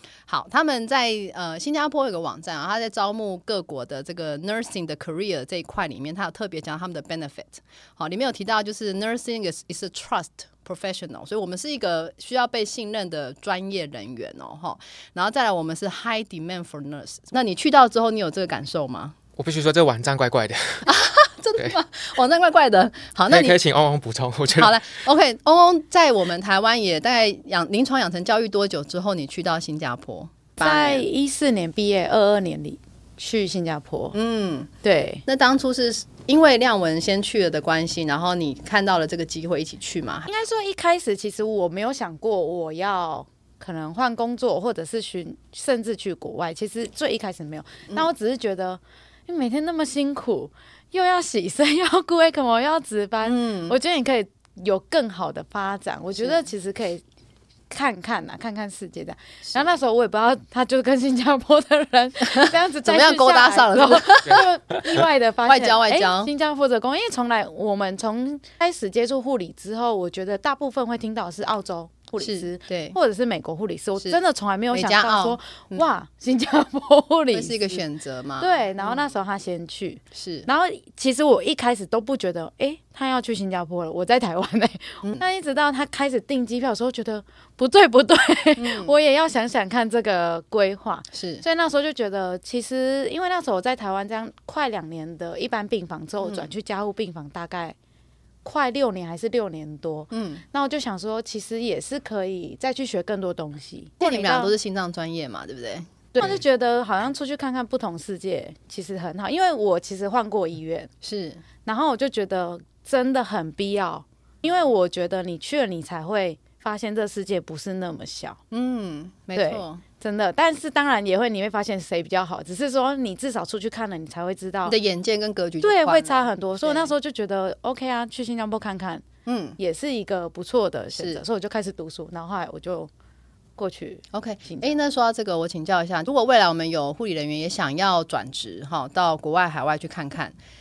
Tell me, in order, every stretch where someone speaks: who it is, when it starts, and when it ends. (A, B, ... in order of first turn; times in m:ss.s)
0:00.3-0:19.2 A
0:19.4-0:20.9 B
0:20.8-0:23.6 A
0:23.3-0:24.8 B
0:24.6-0:31.0 A
0:30.6-0:34.2 C
0:34.1-0:34.7 A
0:34.8-0:35.2 C
0:35.3-0:40.3 A
0:40.2-0:57.0 C
0:53.2-0:53.8 A
0:57.7-1:17.8 C
1:02.2-1:04.5 A
1:05.5-1:06.3 A
1:12.2-1:13.0 A
1:14.7-1:15.9 A
1:17.3-1:19.1 A
1:18.4-1:37.8 C
1:20.1-1:20.5 A
1:28.6-1:28.9 A
1:31.1-1:31.4 A
1:36.2-1:36.5 A
1:38.4-1:44.5 C
1:40.1-1:40.4 A
1:44.0-1:46.4 A
1:46.2-1:50.9 C
1:51.0-1:51.4 A
1:51.6-1:58.4 C
1:58.5-1:59.8 A
1:59.4-2:04.8 C
2:04.7-2:06.9 A
2:05.6-2:09.0 C
2:09.3-2:09.6 A
2:09.6-2:12.9 C
2:10.9-2:11.2 A
2:13.6-2:14.7 C
2:14.1-2:20.4 A